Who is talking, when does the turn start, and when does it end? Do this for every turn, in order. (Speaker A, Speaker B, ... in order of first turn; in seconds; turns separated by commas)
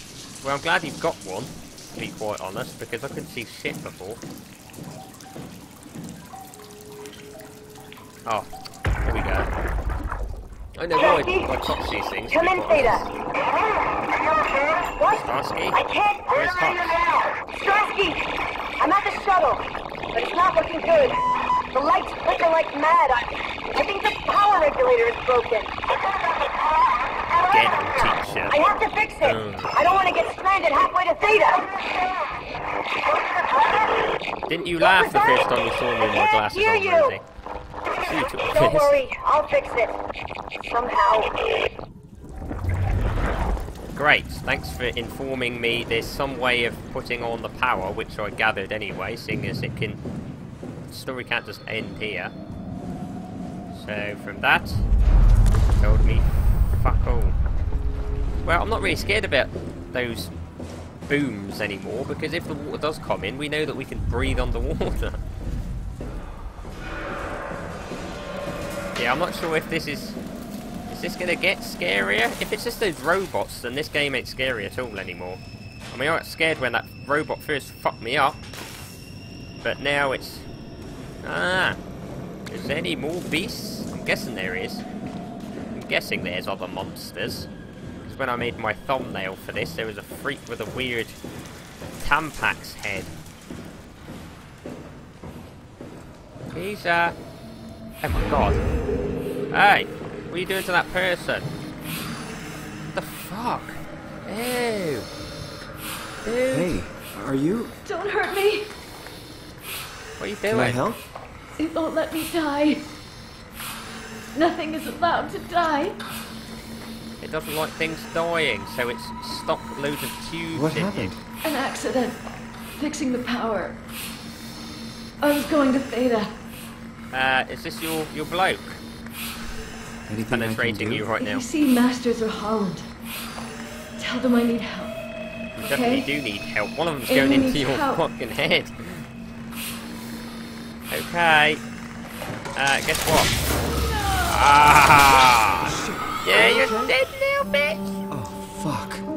Speaker A: 0.4-4.2, Speaker A: 9.0-9.5, Speaker A: 10.8-13.1, Speaker B: 10.9-11.8, Speaker B: 12.3-18.3, Speaker A: 15.2-15.8, Speaker A: 16.3-17.0, Speaker B: 18.8-32.4, Speaker A: 27.5-28.6, Speaker A: 29.2-29.7, Speaker B: 33.0-34.1, Speaker A: 34.5-37.2, Speaker B: 34.8-37.2, Speaker B: 37.9-40.0, Speaker A: 38.0-39.0, Speaker B: 40.7-41.3, Speaker A: 44.0-50.0, Speaker A: 50.9-52.4, Speaker A: 53.7-54.9, Speaker A: 55.8-57.4, Speaker A: 58.5-60.3, Speaker A: 61.1-65.2, Speaker A: 69.0-70.2, Speaker A: 70.9-75.4, Speaker A: 75.9-78.4, Speaker A: 79.6-80.5, Speaker A: 81.2-81.8, Speaker A: 82.5-84.8, Speaker A: 85.7-87.5, Speaker A: 88.0-91.2, Speaker A: 92.0-93.1, Speaker A: 96.5-97.2, Speaker A: 98.0-98.6, Speaker A: 99.5-101.5, Speaker A: 102.9-105.1, Speaker A: 106.2-106.8, Speaker C: 106.5-107.7, Speaker D: 107.8-108.7, Speaker A: 110.2-110.8, Speaker C: 110.5-111.0, Speaker D: 111.6-112.8, Speaker D: 114.3-116.0, Speaker A: 117.2-121.2, Speaker C: 120.5-121.2, Speaker D: 121.4-123.8, Speaker D: 125.2-126.4, Speaker A: 127.1-128.8, Speaker C: 130.1-131.1, Speaker A: 130.3-131.4, Speaker D: 131.2-132.9, Speaker D: 134.0-135.0, Speaker D: 135.6-136.1, Speaker A: 135.6-139.1, Speaker D: 137.1-138.0, Speaker A: 140.9-141.6, Speaker A: 142.6-143.3, Speaker A: 144.3-147.8, Speaker C: 145.5-146.9, Speaker C: 148.1-149.1